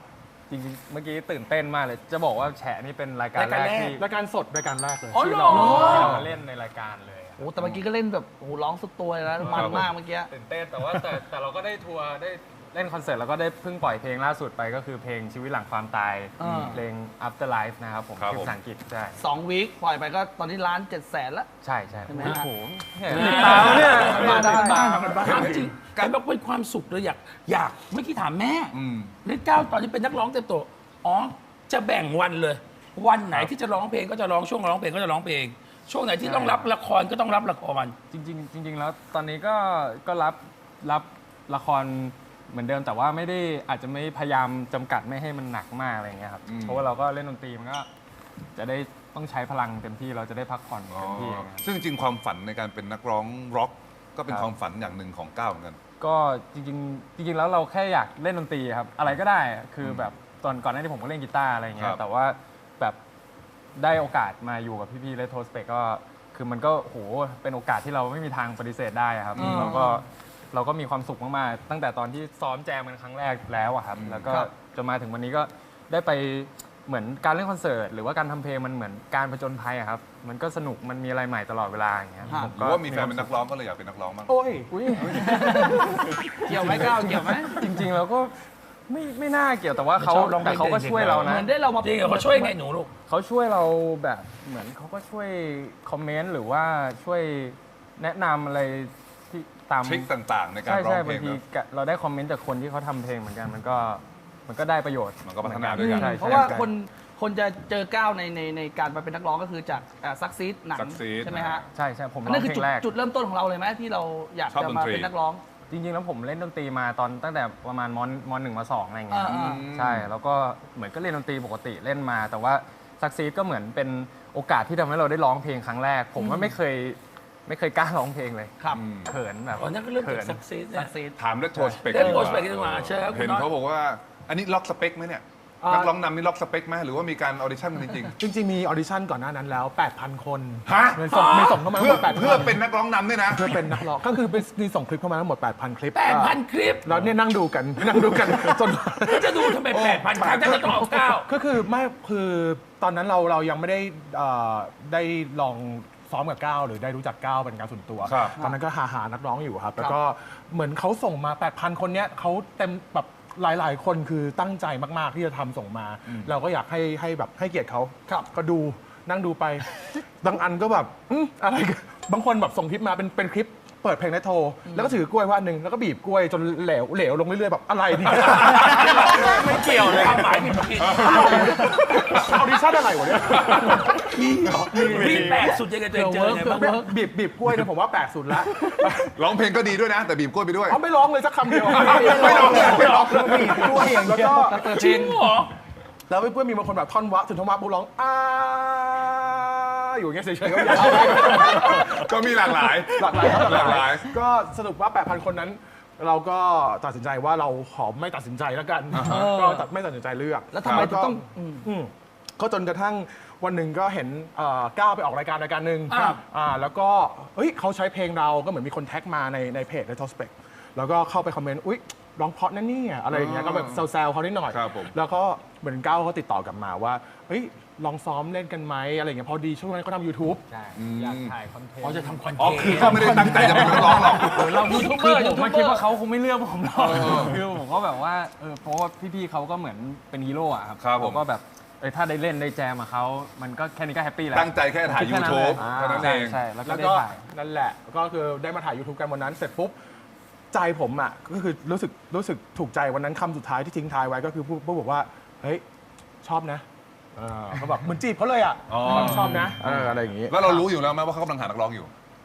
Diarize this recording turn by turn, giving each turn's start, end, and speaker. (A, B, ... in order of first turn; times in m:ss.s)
0:00.5-0:04.0 A
0:03.4-0:04.0 B
0:03.9-0:06.3 C
0:05.1-0:06.2 B
0:05.5-0:06.2 D
0:05.5-0:07.4 A
0:07.4-0:10.3 D
0:07.6-0:07.8 E
0:09.4-0:09.9 E
0:09.4-0:19.2 A
0:16.4-0:16.8 B
0:16.4-0:16.7 D
0:16.4-0:16.8 E
0:18.2-0:18.6 E
0:19.2-0:21.5 D
0:21.6-0:24.7 A
0:22.1-0:22.4 D
0:23.1-0:38.0 B
0:23.1-0:25.6 D
0:23.3-0:24.1 E
0:23.7-0:25.5 C
0:25.2-0:26.2 E
0:28.7-0:29.1 E
0:36.2-0:36.7 A
0:38.1-0:47.9 A
0:46.4-0:46.9 E
0:48.5-0:51.6 A
0:50.9-0:55.8 E
0:56.0-1:03.0 A
0:59.8-1:00.1 E
1:01.8-1:02.0 E
1:03.7-1:23.3 A
1:09.3-1:09.8 E
1:09.4-1:10.0 D
1:13.9-1:14.5 E
1:22.3-1:24.3 E
1:24.2-1:26.1 C
1:24.7-1:28.4 A
1:25.2-1:25.8 D
1:26.4-1:27.6 D
1:28.9-1:31.5 A
1:30.0-1:32.9 B
1:31.1-1:32.6 D
1:33.0-1:40.1 A
1:39.8-1:41.4 E
1:40.6-1:46.7 A
1:45.2-1:46.5 E
1:45.8-1:51.6 D
1:50.7-1:51.7 E
1:51.7-1:52.9 A
1:52.2-1:55.4 D
1:54.5-1:55.1 E
1:55.7-2:10.4 A
1:59.1-1:59.7 D
1:59.2-2:00.1 E
2:06.2-2:06.5 D
2:08.7-2:09.1 E
2:09.5-2:11.0 B
2:10.7-2:11.2 D
2:11.2-2:18.2 E
2:11.8-2:12.3 D
2:11.8-2:13.5 B
2:15.6-2:15.9 C
2:18.2-2:22.6 C
2:20.6-2:23.6 E
2:21.1-2:21.6 B
2:23.3-2:49.6 C
2:25.9-2:26.9 B
2:29.0-2:31.3 B
2:38.0-2:38.4 E
2:50.2-3:05.6 C
2:58.4-2:58.9 E
2:58.5-3:01.8 B
2:58.7-2:59.4 D
3:00.8-3:01.6 E
3:01.7-3:02.2 D
3:03.4-3:06.8 B
3:03.6-3:03.9 D
3:05.9-3:06.9 D
3:06.3-3:09.1 C
3:09.1-3:10.8 E
3:10.6-3:14.7 C
3:11.6-3:13.8 E
3:11.6-3:15.2 D
3:12.9-3:15.5 B
3:16.1-3:50.4 C
3:20.6-3:24.2 E
3:21.4-3:21.9 D
3:28.9-3:29.3 E
3:29.0-3:29.7 D
3:30.5-3:31.7 D
3:30.6-3:30.9 E
3:35.9-3:36.2 B
3:43.1-3:43.8 E
3:44.5-3:44.9 E
3:50.4-3:52.2 A
3:50.8-3:51.3 E
3:51.8-3:54.9 B
3:52.4-3:54.4 E
3:52.7-4:07.2 A
3:53.1-3:55.8 D
3:56.8-3:57.4 E
4:00.8-4:01.2 E
4:04.3-4:06.4 E
4:05.6-4:09.7 C
4:10.5-4:15.6 C
4:16.2-4:20.4 C
4:18.7-4:21.9 E